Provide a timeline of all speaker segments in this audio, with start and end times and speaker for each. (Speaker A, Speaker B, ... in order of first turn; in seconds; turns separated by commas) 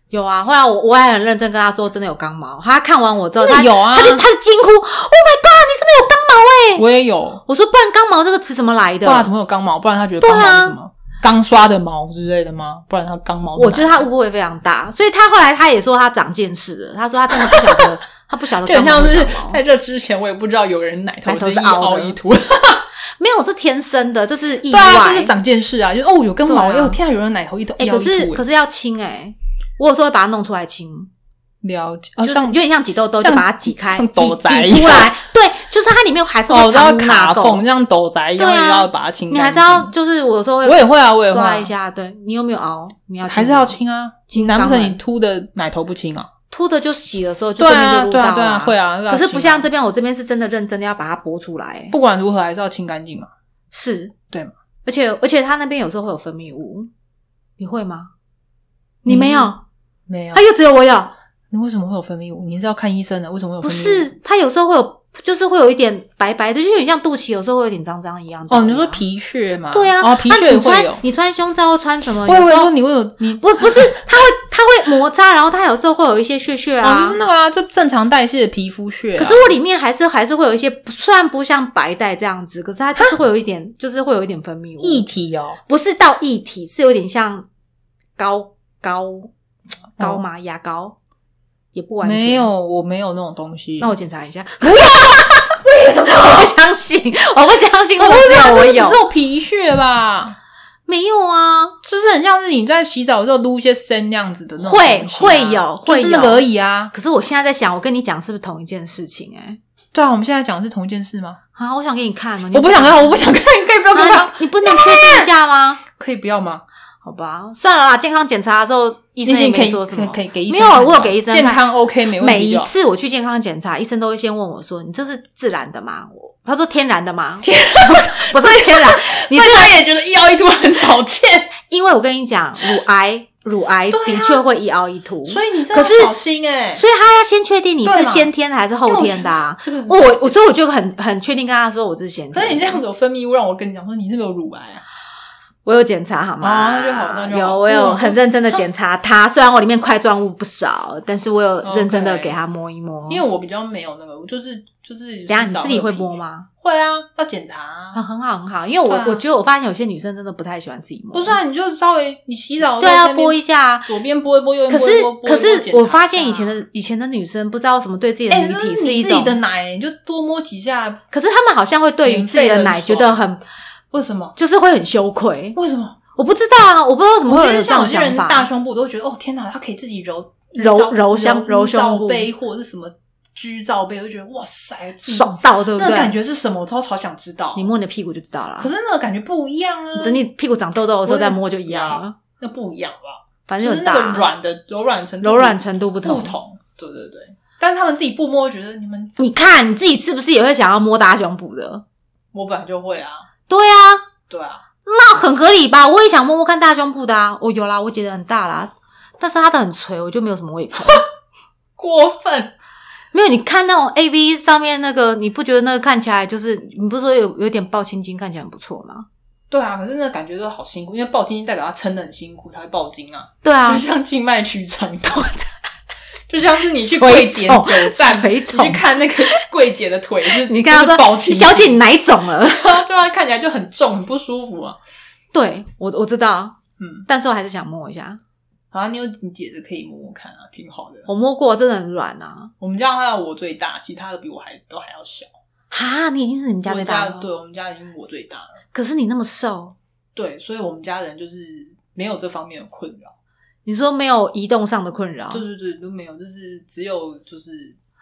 Speaker A: 0.1-6.8, Speaker B: 3.4-4.2, Speaker B: 6.8-7.4, Speaker A: 7.5-9.3, Speaker B: 9.0-14.1, Speaker A: 10.2-10.8, Speaker A: 13.6-19.6, Speaker B: 17.3-17.9, Speaker B: 18.6-22.8, Speaker A: 21.3-22.2, Speaker A: 23.2-25.3, Speaker B: 24.7-28.4, Speaker A: 26.5-27.0, Speaker A: 27.8-31.1, Speaker B: 31.6-32.6, Speaker A: 32.2-37.6, Speaker B: 33.2-35.1, Speaker B: 36.5-39.9, Speaker A: 38.4-43.8, Speaker B: 40.6-41.7, Speaker B: 43.2-46.3, Speaker A: 44.3-45.0, Speaker A: 46.5-52.0, Speaker B: 47.6-49.7, Speaker B: 51.9-53.3, Speaker A: 53.7-54.1, Speaker A: 54.9-56.9, Speaker A: 57.6-58.1, Speaker A: 59.0-59.6, Speaker B: 59.1-59.5, Speaker B: 60.1-60.4, Speaker A: 60.3-61.1, Speaker B: 61.5-64.1, Speaker A: 63.6-69.0, Speaker B: 68.5-71.0, Speaker A: 69.7-72.7, Speaker B: 72.2-73.8, Speaker A: 73.4-77.2, Speaker B: 76.8-79.6, Speaker A: 79.2-85.0, Speaker B: 84.8-85.6, Speaker A: 85.7-87.5, Speaker A: 88.2-89.3, Speaker A: 90.0-91.0, Speaker B: 90.0-90.2, Speaker A: 91.8-92.5, Speaker B: 92.0-93.9, Speaker A: 93.8-99.0, Speaker B: 94.6-96.5, Speaker B: 98.0-100.4, Speaker A: 100.9-101.8, Speaker B: 101.8-106.9, Speaker A: 104.6-109.6, Speaker B: 109.9-111.4, Speaker A: 111.6-113.3, Speaker B: 112.5-115.3, Speaker A: 113.9-115.8, Speaker B: 115.9-116.6, Speaker A: 117.0-121.6, Speaker B: 119.2-122.7, Speaker A: 122.2-129.8, Speaker B: 127.4-131.5, Speaker A: 131.7-136.1, Speaker B: 133.9-134.4, Speaker B: 135.3-136.8, Speaker A: 136.8-142.8, Speaker B: 137.8-138.3, Speaker B: 138.9-140.4, Speaker B: 142.3-144.8, Speaker A: 145.7-153.2, Speaker B: 146.4-148.6, Speaker B: 151.6-152.3, Speaker B: 153.1-158.0, Speaker A: 155.3-156.5, Speaker A: 157.9-161.4, Speaker B: 158.9-159.2, Speaker B: 161.1-166.6, Speaker A: 162.8-163.9, Speaker A: 164.7-169.4, Speaker B: 168.3-171.0, Speaker A: 171.1-173.4, Speaker B: 172.1-173.2, Speaker B: 173.9-174.3, Speaker A: 174.4-175.6, Speaker B: 175.6-176.0, Speaker A: 176.2-178.5, Speaker B: 177.3-187.7, Speaker A: 180.6-182.3, Speaker A: 185.1-186.1, Speaker A: 187.6-188.7, Speaker B: 188.6-190.2, Speaker A: 190.0-192.2, Speaker B: 191.1-199.2, Speaker A: 193.5-194.3, Speaker A: 195.2-196.3, Speaker A: 199.2-201.8, Speaker B: 202.3-203.2, Speaker A: 203.5-204.1, Speaker B: 204.3-204.6, Speaker A: 204.9-211.1, Speaker B: 211.8-212.5, Speaker A: 213.1-219.1, Speaker B: 219.5-225.3, Speaker A: 223.4-223.8, Speaker A: 225.1-225.4, Speaker B: 226.3-231.8, Speaker A: 226.9-228.8, Speaker A: 230.4-232.8, Speaker B: 232.5-234.8, Speaker A: 235.3-236.6, Speaker B: 236.8-237.1, Speaker A: 237.1-238.2, Speaker B: 238.7-241.1, Speaker A: 241.1-242.5, Speaker B: 242.6-245.3, Speaker A: 245.7-247.3, Speaker B: 246.7-248.6, Speaker A: 248.7-249.8, Speaker B: 250.2-253.1, Speaker A: 253.7-255.4, Speaker B: 255.3-257.8